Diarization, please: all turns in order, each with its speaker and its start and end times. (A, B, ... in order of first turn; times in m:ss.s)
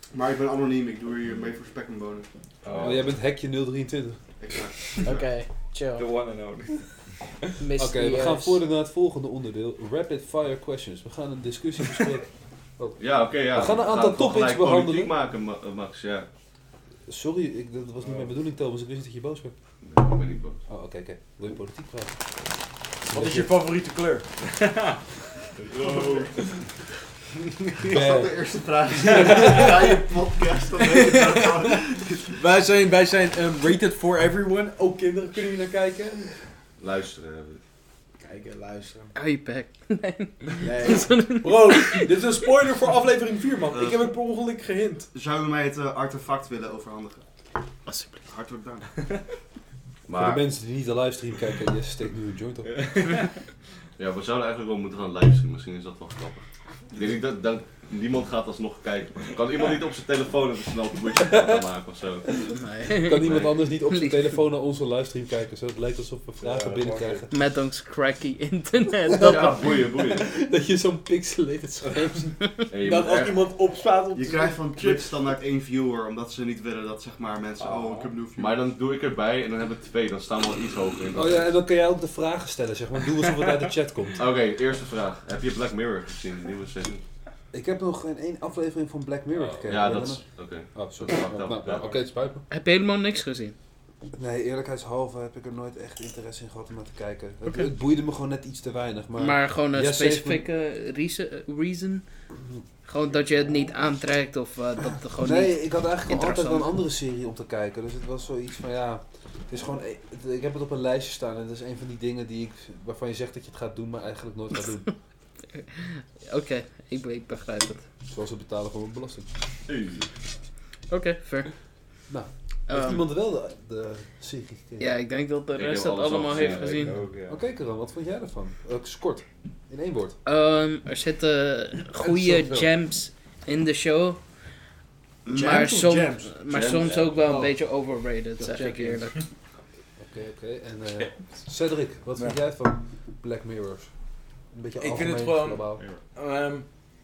0:00.1-0:02.3 A
0:02.6-0:03.1 B
0:02.8-0:04.2 C
0:04.4-0:05.0 A
0:05.0-0:06.0 D
0:06.0-0:07.0 B
0:07.6-0:08.6 D
0:07.8-0:12.3 C
0:12.8-0:15.1 C
0:13.0-0:16.3 E
0:17.1-0:19.5 C
0:18.0-0:18.3 B
0:19.8-0:20.6 E
0:20.7-0:22.2 C
0:23.1-0:23.5 C
0:23.1-0:24.3 F
0:24.5-0:25.0 B
0:25.6-0:26.6 B
0:27.7-0:32.4 A
0:27.9-0:28.4 C
0:29.1-0:29.6 B
0:29.5-0:29.9 F
0:32.3-0:36.3 F
0:36.8-0:37.6 E
0:38.2-0:39.1 F
0:39.1-0:42.1 D
0:40.6-0:45.1 F
0:43.7-0:44.0 A
0:45.1-0:47.2 A
0:47.9-0:48.1 D
0:48.3-0:49.0 A
0:50.0-0:50.5 E
0:50.1-0:53.1 C
0:52.7-0:53.3 B
0:54.0-1:02.4 E
1:01.2-1:01.6 C
1:02.2-1:07.3 C
1:02.6-1:03.3 D
1:03.2-1:03.6 E
1:03.8-1:04.4 D
1:06.4-1:07.3 B
1:07.3-1:09.6 D
1:09.2-1:09.4 C
1:09.2-1:10.3 E
1:10.1-1:12.4 C
1:12.7-1:13.4 E
1:12.8-1:15.1 F
1:14.1-1:18.6 A
1:17.6-1:18.1 B
1:18.4-1:21.5 E
1:21.1-1:24.2 C
1:24.2-1:27.0 E
1:27.5-1:32.4 C
1:29.5-1:29.8 B
1:29.6-1:32.0 E
1:32.5-1:33.5 D
1:34.1-1:40.4 C
1:39.2-1:42.0 D
1:42.8-1:46.7 D
1:45.1-1:55.0 C
1:55.8-1:57.8 D
1:58.0-1:59.3 C
1:59.7-2:00.0 E
2:00.9-2:01.5 D
2:02.1-2:04.9 C
2:02.7-2:03.0 D
2:04.8-2:07.0 D
2:05.5-2:06.8 E
2:06.3-2:07.4 B
2:07.2-2:10.2 C
2:10.2-2:14.2 D
2:12.0-2:12.7 F
2:15.2-2:19.2 D
2:15.3-2:16.4 F
2:16.5-2:17.1 E
2:17.2-2:17.6 F
2:18.4-2:19.2 F
2:20.0-2:25.8 C
2:21.0-2:21.3 B
2:22.1-2:22.4 F
2:24.8-2:26.7 F
2:25.7-2:26.0 B